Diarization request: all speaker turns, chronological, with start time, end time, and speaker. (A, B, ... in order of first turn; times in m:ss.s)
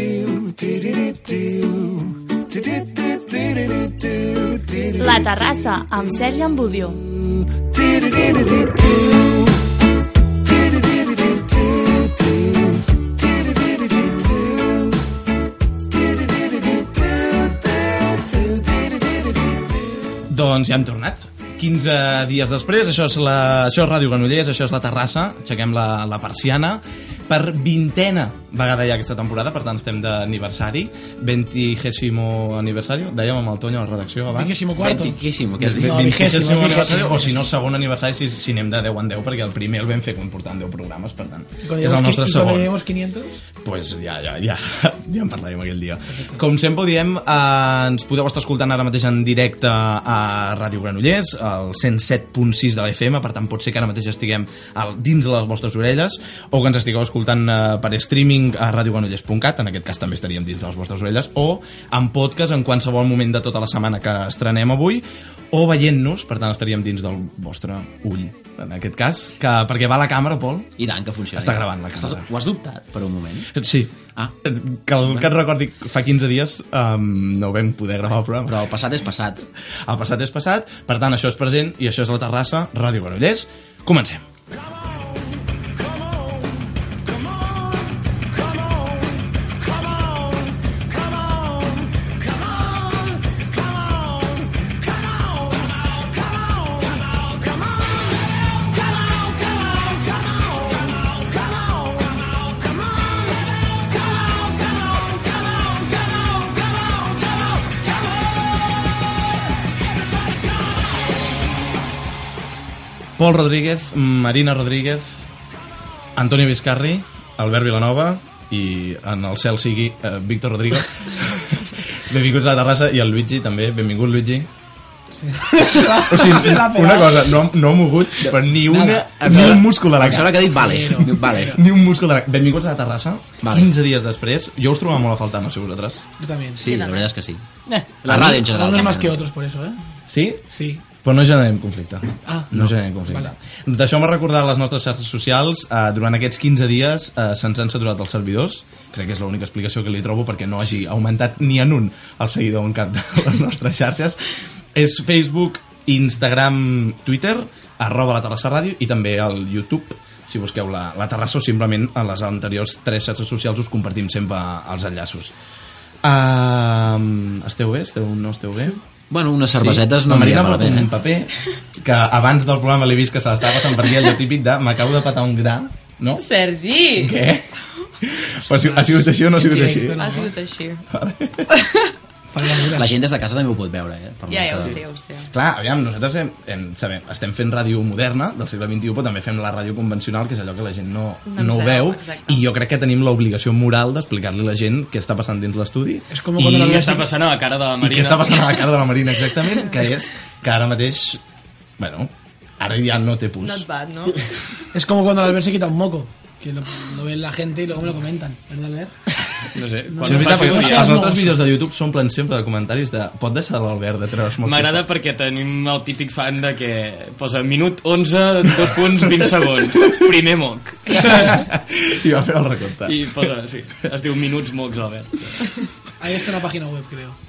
0:05.0-0:07.0 A
0:20.3-0:34.6 B
0:34.3-0:35.2 C
0:34.8-0:36.1 D
0:35.6-0:42.7 B
0:35.7-0:37.4 C
0:41.6-0:43.3 C
0:43.6-1:10.7 B
1:10.8-1:13.5 D
1:11.3-1:12.3 B
1:13.5-1:18.7 B
1:15.0-1:15.3 D
1:18.5-1:19.4 D
1:19.8-1:24.2 B
1:53.2-1:55.2 B
1:56.2-2:04.5 B
2:05.2-2:07.3 C
2:05.9-2:10.6 B
2:08.2-2:11.6 D
2:10.5-2:11.6 C
2:11.3-2:16.0 B
2:13.4-2:13.7 D
2:16.2-2:16.6 C
2:16.6-2:17.4 D
2:16.6-2:17.1 E
2:18.0-2:19.2 D
2:18.1-2:19.8 C
2:20.1-2:20.4 B
2:20.5-2:20.8 C
2:21.0-2:45.3 B
2:22.2-2:23.3 C
2:46.0-2:48.8 B
2:49.1-2:50.9 D
2:49.6-2:56.2 B
2:56.1-2:57.1 E
2:56.9-3:00.0 B
2:58.7-3:00.4 C
3:00.0-3:00.8 E
3:00.9-3:01.5 B
3:01.5-3:01.9 E
3:02.3-3:02.9 C
3:02.7-3:04.8 D
3:04.3-3:05.3 E
3:05.3-3:16.9 B
3:11.2-3:12.4 E
3:16.1-3:17.1 C
3:16.4-3:18.6 F
3:17.8-3:21.2 B
3:21.8-3:23.6 B
3:23.4-3:24.2 E
3:24.7-3:28.9 C
3:29.5-3:30.9 F
3:29.9-3:31.4 C
3:30.0-3:34.8 B
3:34.4-3:41.4 F
3:41.0-3:43.3 B
3:42.8-3:45.6 F
3:46.0-3:47.2 C